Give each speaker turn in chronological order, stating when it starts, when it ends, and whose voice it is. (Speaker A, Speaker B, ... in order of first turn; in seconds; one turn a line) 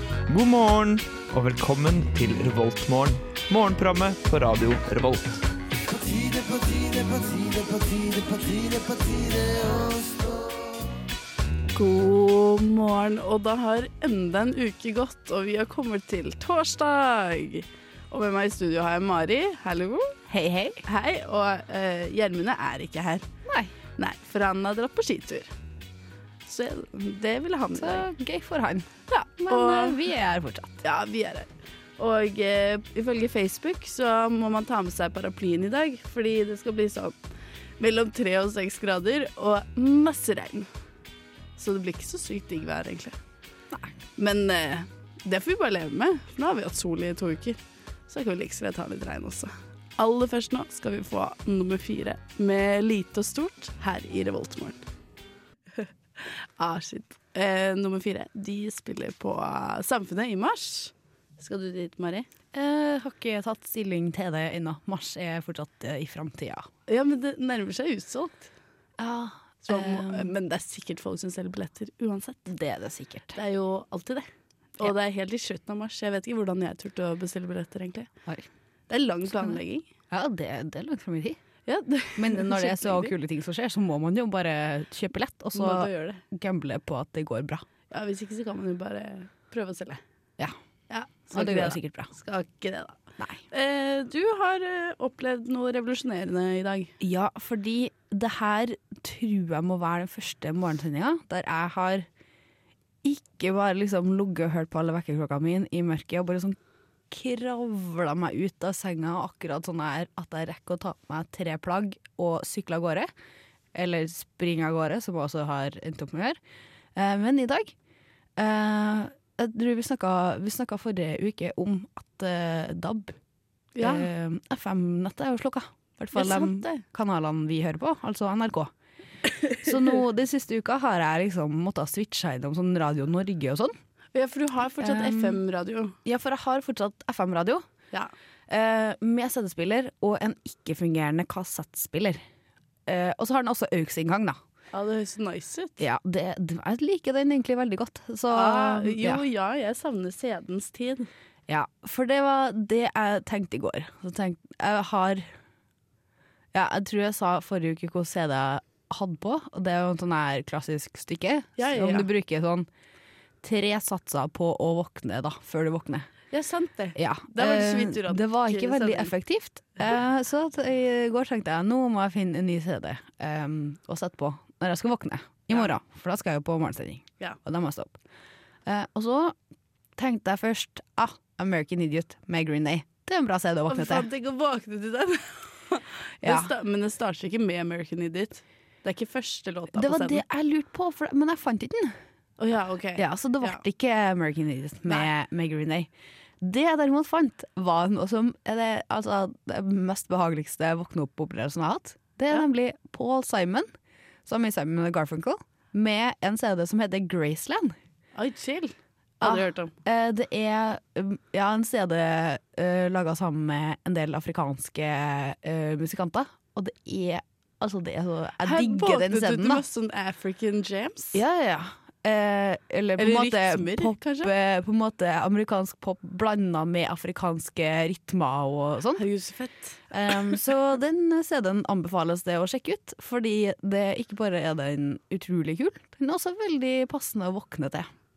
Speaker A: 0.3-10.4
Speaker B: 11.7-20.2
Speaker C: 20.3-20.8
Speaker B: 20.8-23.2
Speaker C: 23.4-23.7
Speaker B: 24.0-25.5
Speaker B: 26.4-28.1
Speaker C: 27.8-30.8
Speaker B: 29.1-30.0
Speaker B: 30.8-37.2
Speaker B: 37.8-40.7
Speaker B: 41.6-43.2
Speaker B: 44.2-47.6
Speaker B: 48.1-54.8
Speaker B: 56.2-62.3
Speaker C: 62.5-66.7
Speaker B: 66.9-68.5
Speaker C: 69.0-70.3
Speaker B: 69.7-72.5
Speaker C: 72.5-73.4
Speaker B: 73.3-78.1
Speaker B: 78.9-79.9
Speaker C: 80.1-81.4
Speaker B: 81.7-83.1
Speaker C: 82.2-87.6
Speaker B: 85.5-86.2
Speaker B: 87.9-90.0
Speaker B: 90.9-93.0
Speaker C: 91.3-92.1
Speaker B: 93.5-96.9
Speaker C: 97.0-102.1
Speaker C: 103.0-106.6
Speaker C: 107.1-113.1
Speaker C: 113.7-116.4
Speaker C: 116.9-117.7
Speaker C: 118.4-123.2
Speaker B: 123.7-124.1
Speaker C: 123.8-128.7
Speaker B: 126.1-126.8
Speaker C: 129.6-133.7
Speaker B: 134.1-135.9
Speaker C: 134.8-135.4
Speaker C: 136.0-137.6
Speaker C: 138.5-142.2
Speaker C: 142.9-144.4
Speaker B: 144.7-145.8
Speaker C: 145.8-149.2
Speaker B: 148.3-151.1
Speaker C: 151.5-155.3
Speaker C: 156.5-162.7
Speaker B: 161.6-162.1
Speaker C: 163.4-166.1
Speaker B: 166.3-169.1
Speaker C: 166.9-178.0
Speaker C: 178.7-179.3
Speaker C: 180.0-184.1
Speaker B: 183.7-190.2
Speaker C: 186.2-186.5
Speaker C: 189.7-192.0
Speaker B: 192.4-193.6
Speaker C: 192.9-195.9
Speaker C: 196.4-203.7
Speaker C: 204.2-207.7
Speaker B: 208.2-209.7
Speaker C: 209.2-219.6
Speaker B: 218.4-221.2
Speaker C: 221.1-229.0
Speaker B: 223.0-224.3
Speaker B: 229.0-230.3
Speaker C: 229.9-237.9